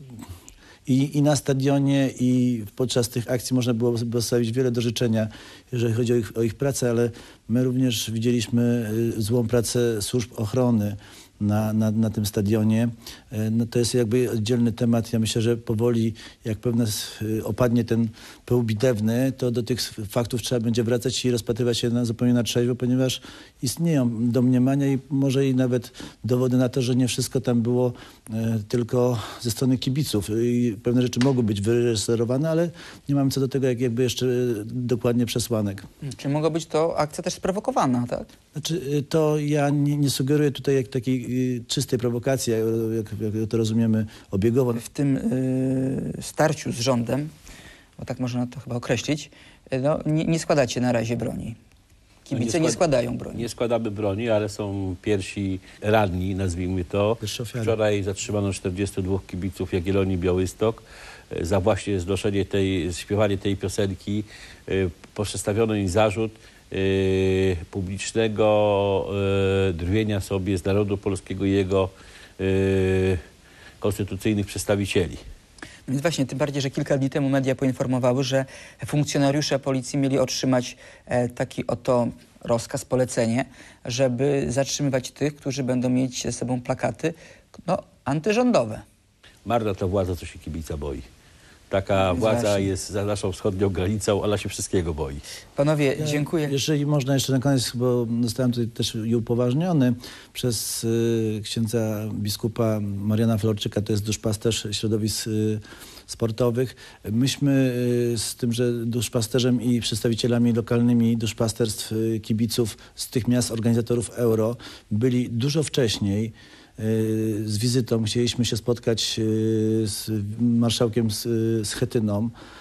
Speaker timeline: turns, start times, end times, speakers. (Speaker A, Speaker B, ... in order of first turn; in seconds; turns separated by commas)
Speaker A: 0.9-35.9, Speaker B: 36.0-38.3, Speaker A: 38.5-44.8, Speaker B: 44.8-47.3, Speaker B: 48.0-51.6, Speaker B: 52.3-53.5, Speaker C: 52.3-52.8, Speaker C: 53.3-73.2, Speaker A: 57.2-57.8, Speaker C: 73.8-75.2, Speaker B: 75.9-88.8, Speaker C: 89.5-91.1, Speaker C: 91.7-95.2, Speaker B: 92.1-92.7, Speaker B: 95.6-96.5, Speaker A: 96.0-122.3